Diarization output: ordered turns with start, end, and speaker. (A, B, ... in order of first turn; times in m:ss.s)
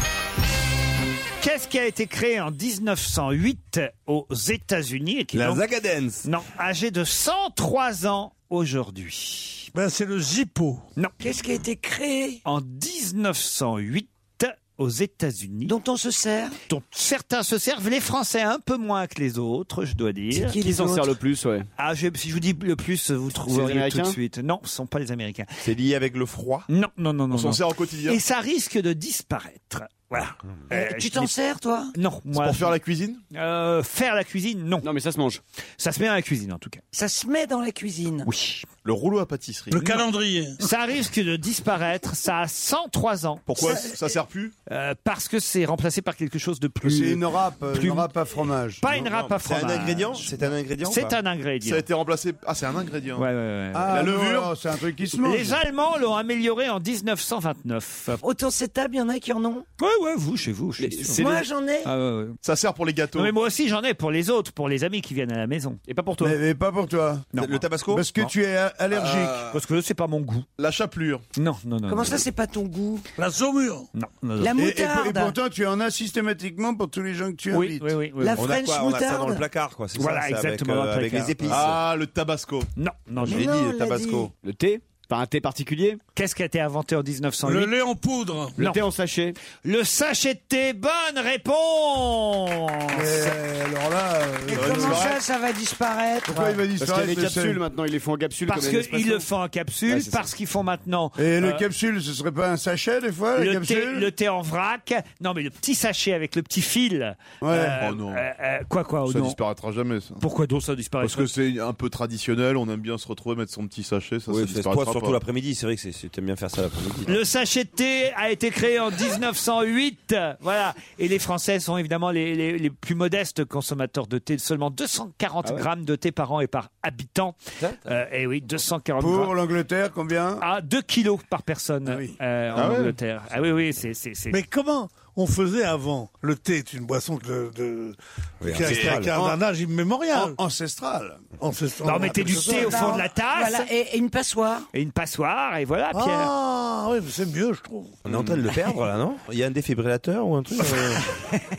0:01.4-0:05.6 A
0:05.3-0:06.2 B
0:06.2-0:09.7 A
0:09.7-0:10.8 C
0:11.2-0:12.4 D
0:12.4-0:15.7 A
0:15.6-0:16.6 D
0:16.7-0:20.6 A
0:20.3-0:21.1 D
0:20.6-0:21.7 E
0:21.8-0:25.5 A
0:23.5-0:24.2 E
0:25.6-0:26.6 B
0:26.7-0:31.3 A
0:27.3-0:28.2 F
0:30.7-0:31.9 D
0:31.9-0:32.7 A
0:32.3-0:33.2 F
0:33.3-0:34.9 A
0:34.8-0:35.4 E
0:35.8-0:36.8 A
0:36.9-0:38.3 D
0:38.2-0:38.7 A
0:38.8-0:39.8 F
0:39.7-0:40.6 C
0:39.8-0:40.0 A
0:40.6-0:43.8 A
0:43.5-0:44.5 F
0:43.6-0:44.0 D
0:44.7-0:48.1 A
0:46.8-0:48.8 G
0:48.8-0:51.8 A
0:48.9-0:51.1 B
0:51.6-0:53.2 F
0:53.2-0:54.0 A
0:53.7-0:55.6 G
0:53.9-0:54.5 F
0:55.1-0:58.2 A
0:58.2-0:59.6 D
0:59.8-1:01.2 A
1:00.8-1:01.5 E
1:01.1-1:01.9 D
1:01.8-1:02.4 A
1:02.4-1:03.3 F
1:03.2-1:05.8 A
1:05.9-1:06.4 E
1:06.2-1:07.2 G
1:07.3-1:07.6 A
1:07.3-1:08.1 B
1:07.9-1:09.5 G
1:09.5-1:10.4 A
1:10.6-1:11.2 F
1:11.4-1:12.2 A
1:11.9-1:13.0 D
1:13.2-1:13.9 C
1:13.9-1:14.6 A
1:14.4-1:15.4 D
1:14.6-1:17.9 G
1:17.5-1:18.5 A
1:18.2-1:19.4 D
1:18.3-1:21.8 B
1:20.0-1:21.6 A
1:21.5-1:22.7 F
1:22.8-1:23.5 A
1:23.2-1:24.3 B
1:23.2-1:24.3 D
1:24.4-1:26.0 E
1:26.2-1:27.7 A
1:27.4-1:28.6 C
1:28.6-1:29.4 E
1:29.6-1:33.4 A
1:32.9-1:35.1 G
1:34.5-1:36.6 D
1:34.5-1:35.2 F
1:36.2-1:37.6 G
1:36.8-1:39.3 E
1:38.5-1:41.6 A
1:39.9-1:40.3 E
1:41.2-1:44.1 G
1:43.4-1:49.4 A
1:47.4-1:47.8 G
1:47.8-1:48.2 F
1:49.0-1:50.2 F
1:50.2-1:51.3 A
1:51.0-1:55.2 F
1:54.3-1:57.2 B
1:57.1-2:09.3 A
2:09.0-2:10.4 G
2:10.4-2:14.4 A
2:11.9-2:12.1 G
2:12.5-2:13.0 F
2:14.3-2:20.4 C
2:18.4-2:19.2 B
2:18.6-2:19.4 G
2:20.1-2:21.3 G
2:21.4-2:23.0 C
2:21.8-2:23.7 A
2:22.3-2:24.7 D
2:24.7-2:26.3 A
2:25.9-2:28.0 C
2:28.0-2:31.0 B